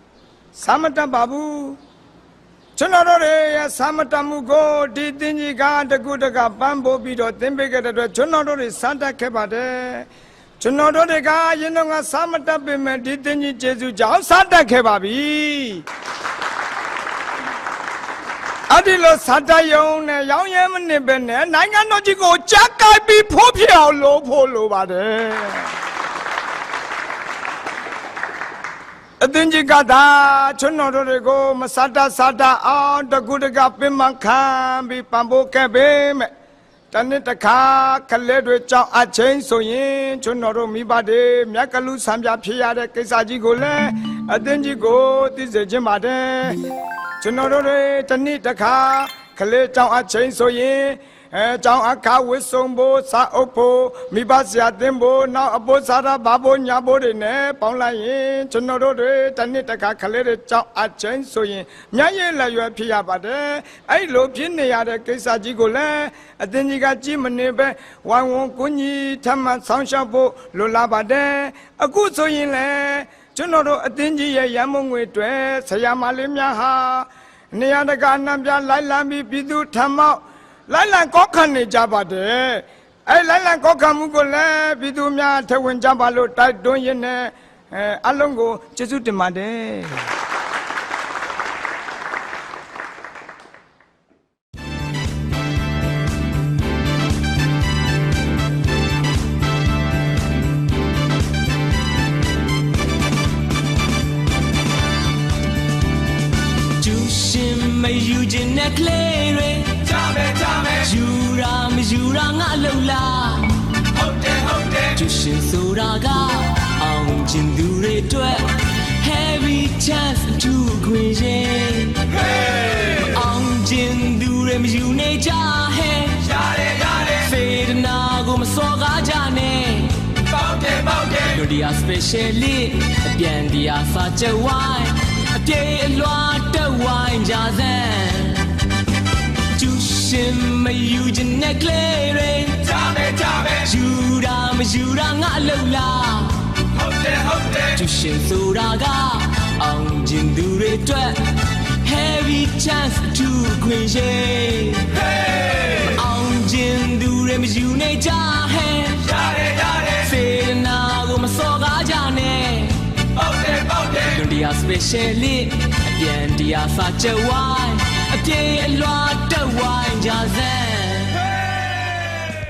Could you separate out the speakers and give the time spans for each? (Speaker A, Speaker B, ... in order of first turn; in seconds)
Speaker A: 0.6-1.8, 2.8-10.1, 10.6-15.9, 18.7-25.7, 29.2-36.3, 36.9-46.6, 47.2-90.0, 171.4-172.2
Speaker B: 106.8-110.0, 110.8-113.8, 114.9-126.4, 127.2-130.2, 131.3-138.7, 139.5-142.8, 143.6-146.7, 147.7-159.2, 160.0-163.1, 164.1-171.3
Speaker C: 109.8-110.9, 113.9-115.0, 122.2-123.0, 126.2-127.3, 130.2-131.4, 142.7-143.7, 146.8-147.8, 155.1-155.8, 159.1-160.1, 163.1-164.2